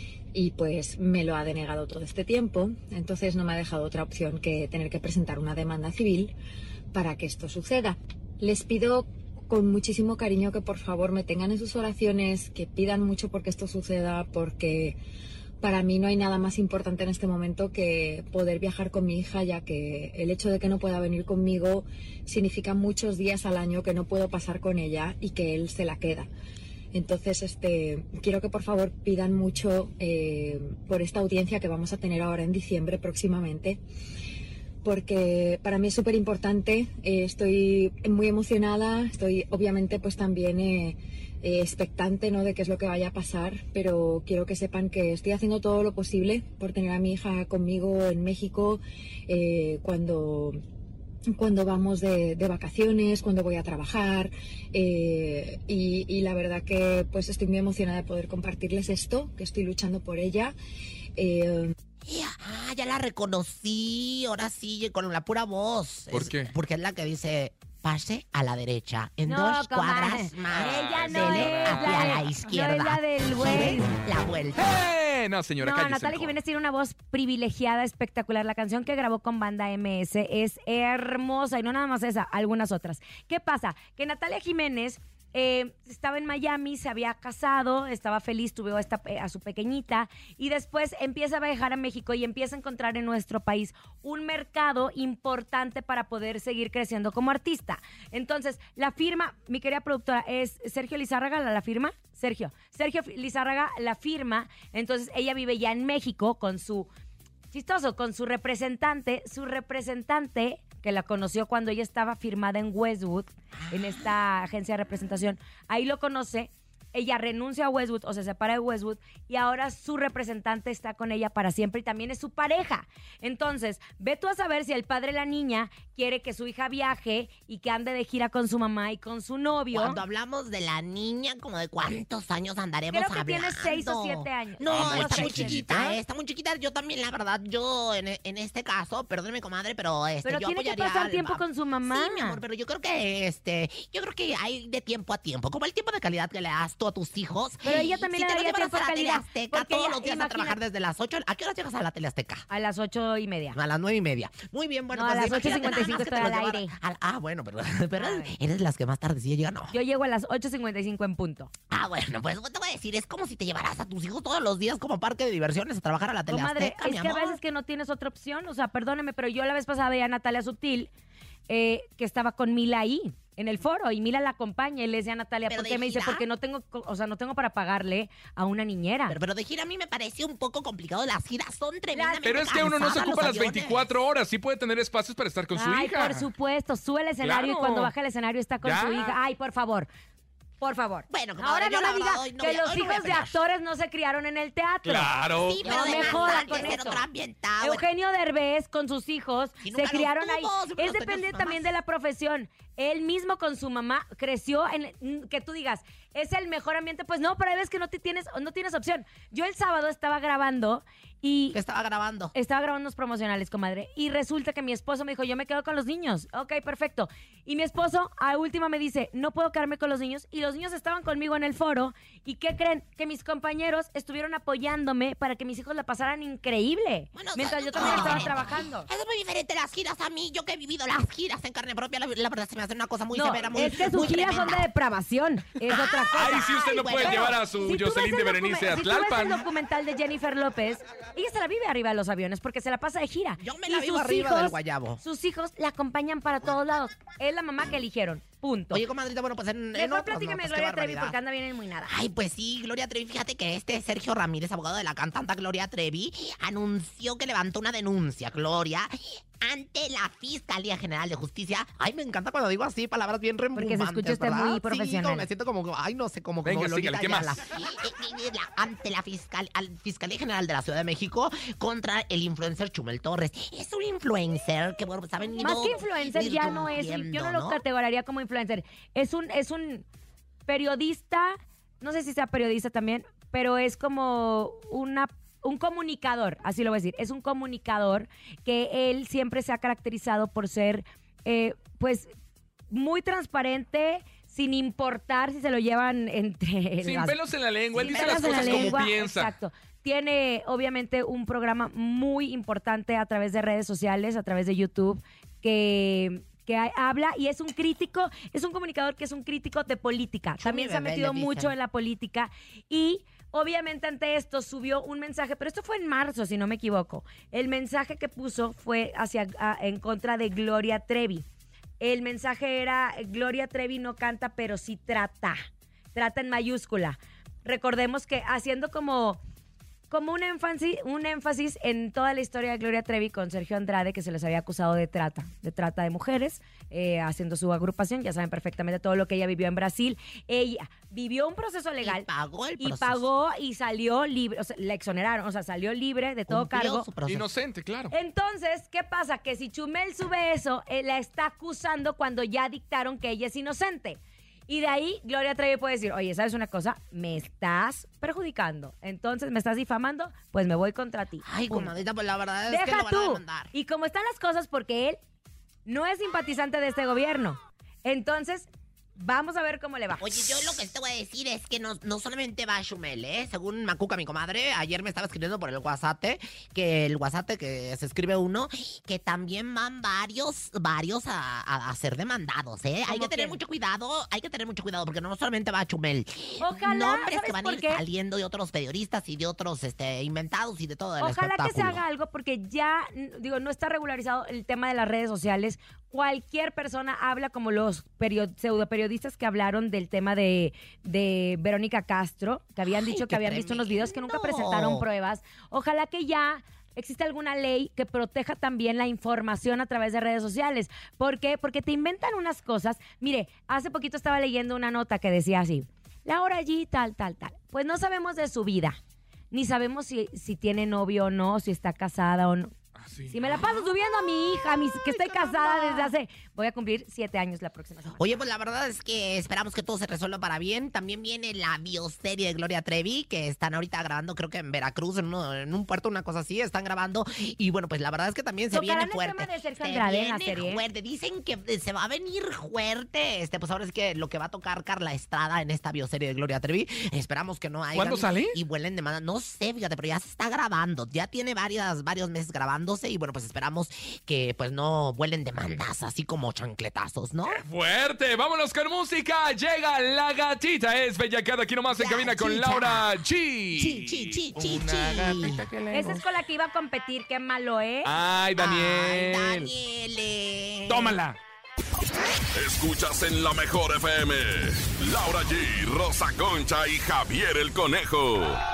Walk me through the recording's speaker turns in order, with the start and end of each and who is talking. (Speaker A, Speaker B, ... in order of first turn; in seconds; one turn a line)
Speaker A: 0.3-6.3
Speaker A: 6.9-15.0
Speaker A: 15.6-26.3
Speaker A: 26.9-33.8
Speaker A: 34.8-50.6
Speaker A: 51.3-60.5
Speaker A: 61.2-61.7
Speaker B: 62.0-74.7
Speaker C: 66.1-66.5
Speaker D: 69.2-73.9
Speaker C: 70.5-72.2
Speaker C: 74.5-76.3
Speaker D: 75.6-106.9
Speaker D: 107.5-130.0
Speaker B: 113.6-114.0
Speaker B: 129.7-152.4
Speaker D: 132.9-135.9
Speaker C: 134.6-135.7
Speaker D: 140.2-142.4
Speaker D: 147.6-150.6
Speaker D: 152.5-153.6
Speaker B: 153.5-159.7
Speaker D: 154.9-156.7
Speaker D: 157.9-158.3
Speaker D: 159.7-161.5
Speaker B: 161.7-167.4
Speaker D: 166.3-170.9
Speaker D: 171.5-179.2
Speaker B: 175.5-176.2
Speaker B: 179.1-183.9
Speaker D: 181.9-182.3
Speaker C: 182.2-186.3
Speaker D: 185.5-189.9
Speaker C: 187.2-187.9
Speaker C: 188.6-189.1
Speaker D: 190.6-195.1
Speaker B: 191.1-193.4
Speaker C: 194.8-196.4
Speaker B: 195.4-197.8
Speaker D: 195.6-197.0
Speaker D: 197.6-211.6
Speaker B: 199.6-201.7
Speaker B: 211.5-212.3
Speaker D: 212.3-228.9
Speaker B: 227.1-234.7
Speaker D: 233.1-248.8
Speaker B: 235.7-237.4
Speaker C: 236.1-239.4
Speaker B: 243.4-245.0
Speaker B: 248.7-251.2
Speaker D: 249.7-251.9
Speaker B: 251.9-277.6
Speaker D: 263.6-265.3
Speaker C: 266.4-267.4
Speaker D: 275.4-279.8
Speaker D: 280.5-292.1
Speaker D: 292.7-297.2
Speaker C: 296.8-299.3
Speaker B: 297.8-298.9
Speaker D: 297.8-321.2
Speaker B: 310.4-311.5
Speaker D: 321.8-329.2
Speaker D: 329.9-342.1
Speaker B: 341.8-343.0
Speaker D: 342.6-346.9
Speaker B: 346.3-347.3
Speaker C: 347.1-347.9
Speaker D: 347.9-361.7
Speaker B: 361.2-363.5
Speaker D: 362.5-365.0
Speaker D: 365.6-370.1
Speaker B: 370.0-391.8
Speaker D: 382.9-383.4
Speaker D: 386.4-387.8
Speaker D: 391.0-418.8
Speaker B: 402.6-404.8
Speaker D: 419.3-422.5
Speaker C: 422.8-423.4
Speaker D: 423.1-428.1
Speaker B: 428.0-457.4
Speaker D: 438.5-440.6
Speaker C: 447.7-448.4
Speaker C: 457.3-466.0
Speaker B: 461.7-462.9
Speaker B: 463.5-465.5
Speaker D: 465.7-467.9
Speaker C: 467.8-469.5
Speaker B: 468.4-470.9
Speaker C: 470.7-471.2
Speaker E: 472.3-478.4